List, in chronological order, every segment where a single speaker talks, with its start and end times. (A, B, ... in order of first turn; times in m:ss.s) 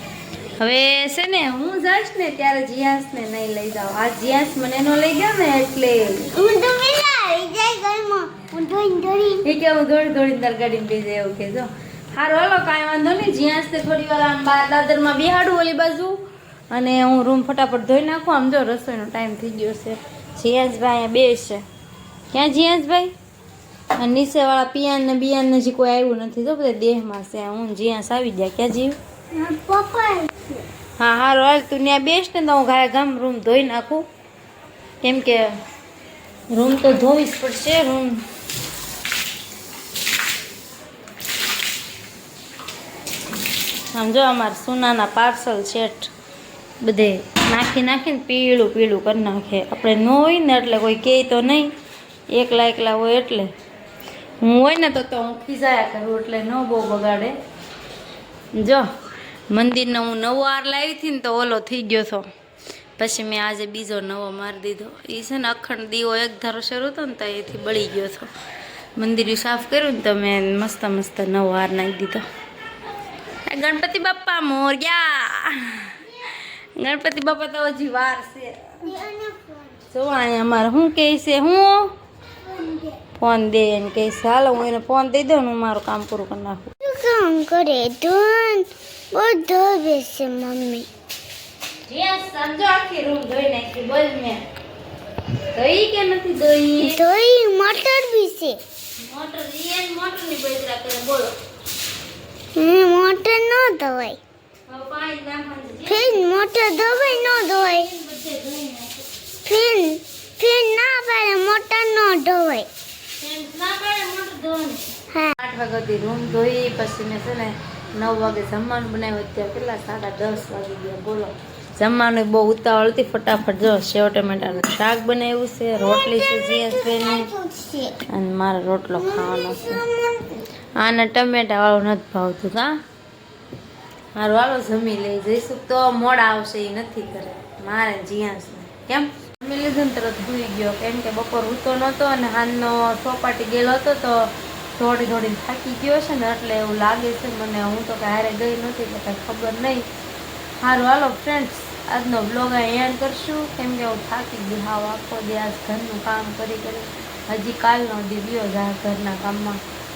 0:00.6-0:06.3 A
0:06.3-0:09.4 B
0:09.4-0:16.2 A
0:16.7-0:21.6 A
0:22.3-0:23.1 A
0:24.0-0:29.0 A
0:29.3-0:30.7 B
0:31.0-0:34.1 A
0:35.0-0:35.6 A
0:36.5-0:38.3 A
0:43.9-0:46.1 A
0:46.8-0:51.7 A
0:52.3-0:53.5 A
0:54.4-0:57.4 A
0:58.5-0:58.9 A
0:59.5-1:02.3 A
1:03.0-1:08.3 A
1:09.0-1:12.2 A
1:13.5-1:19.0 A
1:18.9-1:19.8 B
1:19.9-1:21.9 A
1:22.5-1:23.0 B
1:23.2-1:26.7 A
1:26.8-1:30.9 B
1:31.9-1:34.4 A
1:35.5-1:37.0 A
1:36.8-1:38.6 B
1:39.0-1:41.4 A
1:42.6-1:44.2 B
1:44.7-1:49.0 A
1:45.9-1:47.9 B
1:49.4-1:52.7 B
1:53.2-2:07.3 A
2:05.8-2:08.0 B
2:08.0-2:09.8 A
2:09.0-2:10.4 B
2:10.8-2:12.8 A
2:14.2-2:29.9 A
2:30.6-2:39.6 A